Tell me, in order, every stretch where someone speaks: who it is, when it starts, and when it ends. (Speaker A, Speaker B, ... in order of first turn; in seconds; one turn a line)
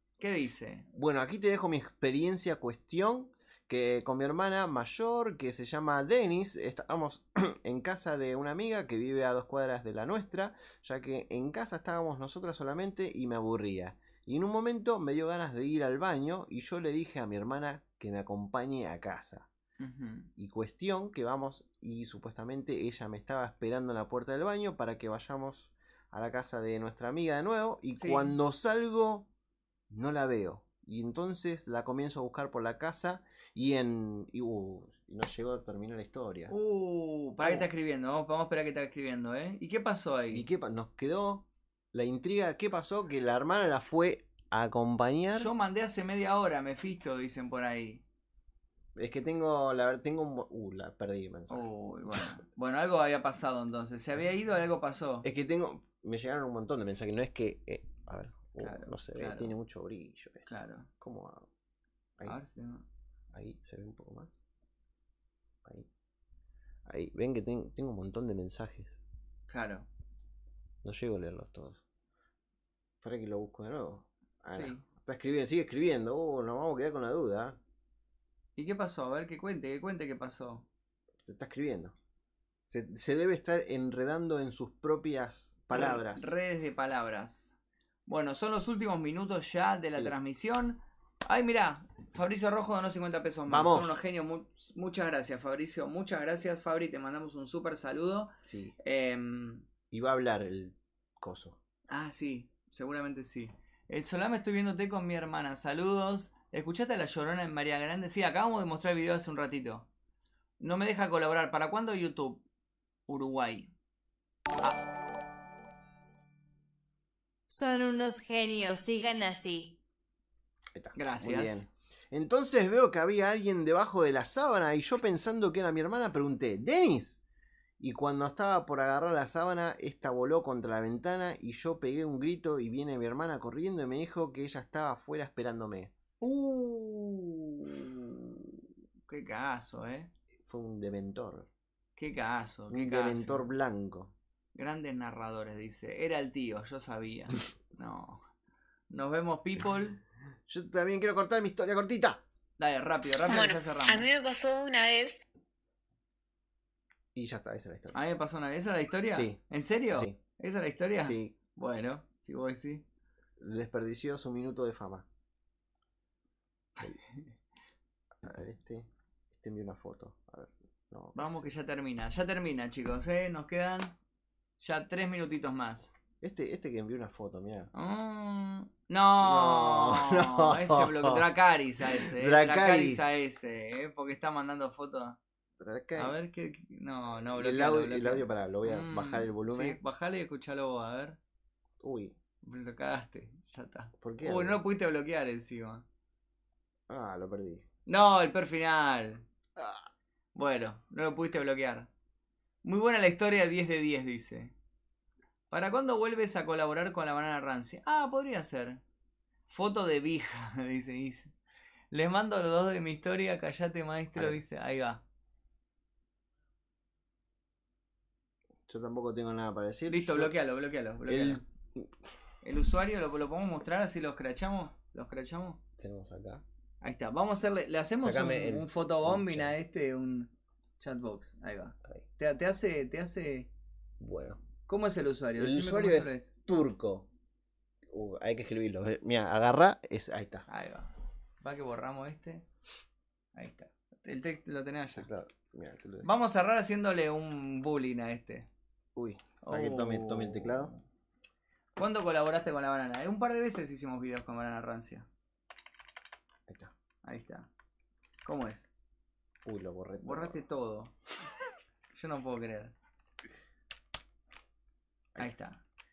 Speaker A: 0.2-0.9
Speaker B: 0.9-19.5
Speaker A: 19.8-20.3
Speaker B: 20.4-29.3
Speaker A: 27.9-28.3
Speaker B: 29.9-36.5
Speaker A: 36.5-40.5
Speaker B: 37.4-37.7
Speaker B: 40.3-45.5
Speaker A: 45.3-48.0
Speaker B: 49.0-51.7
Speaker A: 51.5-55.2
Speaker B: 55.2-60.5
Speaker A: 58.6-59.5
Speaker A: 60.5-60.9
Speaker B: 61.0-61.5
Speaker A: 62.2-62.8
Speaker B: 63.3-64.3
Speaker B: 66.8-69.0
Speaker A: 69.5-69.9
Speaker B: 70.8-71.8
Speaker B: 73.0-77.6
Speaker A: 74.5-74.8
Speaker A: 78.5-80.7
Speaker B: 81.2-81.9
Speaker B: 82.7-86.3
Speaker A: 85.7-87.5
Speaker A: 88.1-98.3
Speaker B: 93.5-94.0
Speaker B: 98.4-98.7
Speaker A: 98.8-99.6
Speaker B: 99.9-101.6
Speaker A: 101.9-109.9
Speaker A: 110.6-112.4
Speaker A: 113.1-113.7
Speaker C: 117.5-119.8
Speaker B: 120.7-127.2
Speaker A: 120.9-121.6
Speaker B: 127.8-138.2
Speaker A: 139.1-140.1
Speaker B: 140.4-141.5
Speaker A: 142.0-143.5
Speaker B: 142.7-144.1
Speaker A: 144.5-148.2
Speaker A: 148.9-150.0
Speaker B: 150.5-152.2
Speaker A: 152.6-154.1
Speaker D: 153.2-155.2
Speaker B: 157.1-158.0
Speaker A: 157.9-162.8
Speaker B: 159.1-159.4
Speaker B: 159.9-160.2
Speaker B: 161.0-161.3
Speaker B: 163.4-165.1
Speaker A: 166.8-167.3
Speaker B: 168.2-171.4
Speaker A: 171.1-173.9
Speaker A: 174.6-175.9
Speaker B: 176.2-177.7
Speaker A: 177.7-185.2
Speaker B: 179.2-181.2
Speaker B: 182.0-183.1
Speaker B: 185.6-186.1
Speaker A: 185.9-191.2
Speaker B: 187.3-189.8
Speaker B: 191.8-192.1
Speaker A: 192.4-195.8
Speaker B: 194.0-194.6
Speaker B: 196.9-197.6
Speaker A: 197.9-199.2
Speaker B: 199.6-199.9
Speaker A: 200.3-201.9
Speaker A: 202.6-204.5
Speaker A: 205.5-208.8
Speaker A: 209.5-211.3
Speaker A: 211.9-215.0
Speaker B: 218.7-220.3
Speaker A: 219.9-221.4
Speaker B: 221.1-221.9
Speaker A: 222.4-225.6
Speaker B: 225.8-226.4
Speaker A: 226.8-233.5
Speaker B: 228.0-229.5
Speaker B: 234.0-234.4
Speaker A: 234.7-236.3
Speaker B: 235.3-237.1
Speaker B: 237.9-240.4
Speaker A: 240.5-242.4
Speaker A: 243.3-245.1
Speaker B: 245.0-246.1
Speaker A: 246.0-248.5
Speaker B: 248.9-250.7
Speaker A: 249.4-250.8
Speaker A: 251.8-255.1
Speaker B: 256.5-256.7
Speaker A: 257.0-257.5
Speaker A: 258.2-258.7
Speaker B: 259.4-260.4
Speaker A: 260.0-260.9
Speaker A: 261.9-262.7
Speaker A: 265.2-265.6